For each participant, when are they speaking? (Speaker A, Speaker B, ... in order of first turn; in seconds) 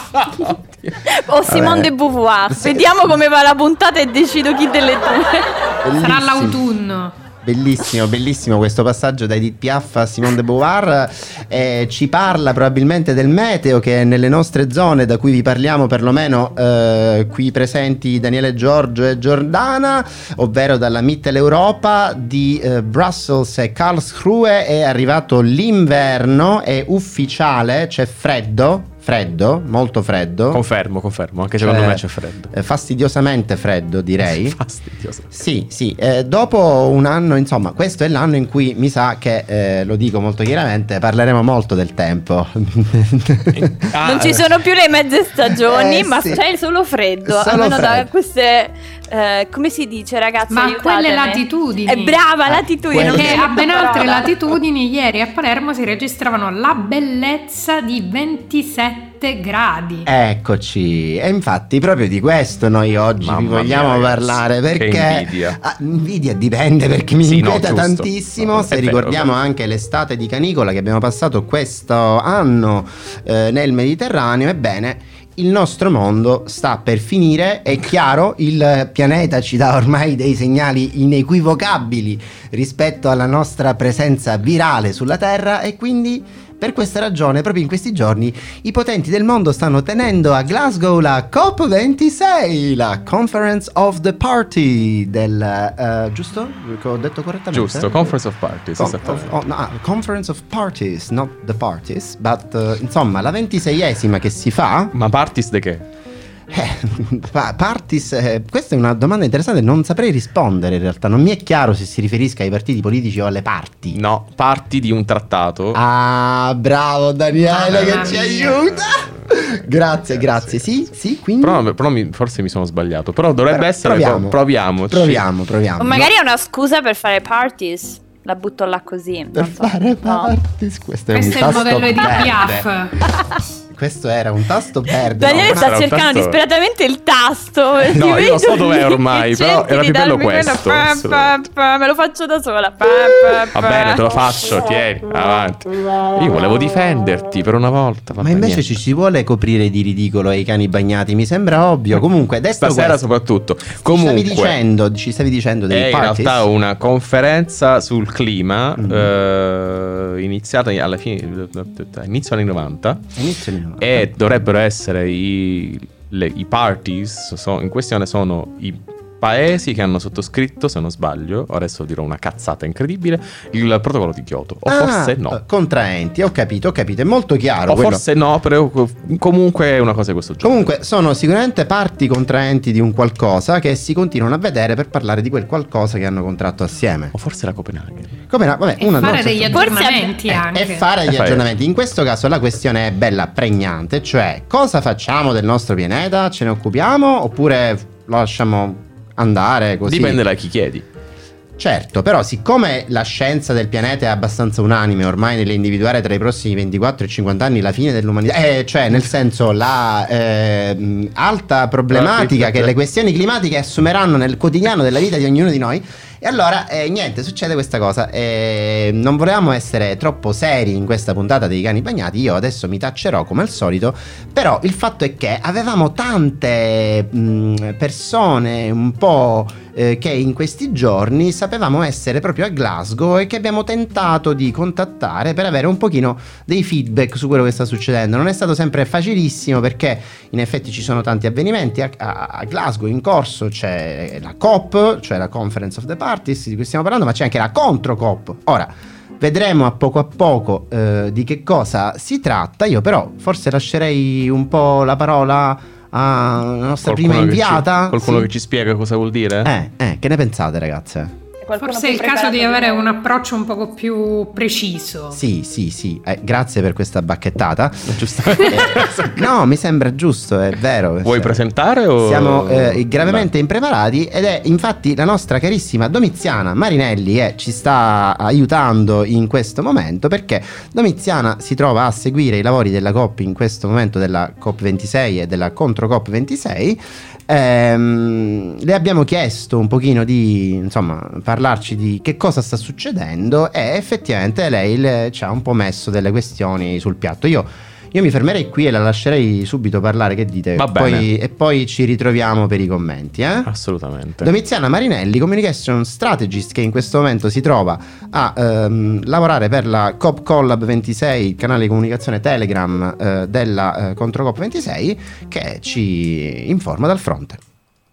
Speaker A: 0.2-1.0, 1.5-1.8, 30.5-32.5, 34.2-35.3, 43.5-44.5, 63.2-65.6, 67.2-69.3, 97.5-99.3, 104.9-105.8, 113.9-115.8, 117.7-119.4, 120.1-120.9, 121.4-125.2, 135.3-136.4, 137.9-141.3, 143.5-148.8, 152.6-154.6, 155.7-163.1, 163.8-175.4, 177.7-180.7, 187.1-188.2, 191.1-191.5, 199.9-200.8, 211.9-212.7, 256.8-259.5, 267.9-269.2, 271.0-273.3, 300.6-301.1, 303.5-304.3
Speaker B: 1.1-5.8, 44.0-54.3, 125.8-130.3, 135.1-144.0, 189.5-190.2, 261.4-263.0
Speaker C: 1.5-1.9, 2.5-2.9, 5.8-6.6, 7.4-30.6, 31.6-34.6, 35.3-43.8, 45.6-46.4, 47.2-48.1, 52.5-53.5, 60.1-98.1, 98.8-104.9, 106.5-114.0, 115.7-121.6, 123.5-124.4, 124.9-126.1, 129.3-132.7, 133.7-135.7, 148.2-153.0, 153.8-156.4, 158.8-159.1, 163.2-164.1, 174.7-178.0, 180.4-187.1, 188.3-189.8, 190.3-200.2, 201.6-258.3, 259.4-261.1, 265.1-271.4, 272.0-303.5, 304.2-317.4
Speaker D: 6.0-7.2, 50.5-52.2, 53.0-60.1, 117.4-118.5, 131.1-133.1, 188.8-190.9, 261.6-265.2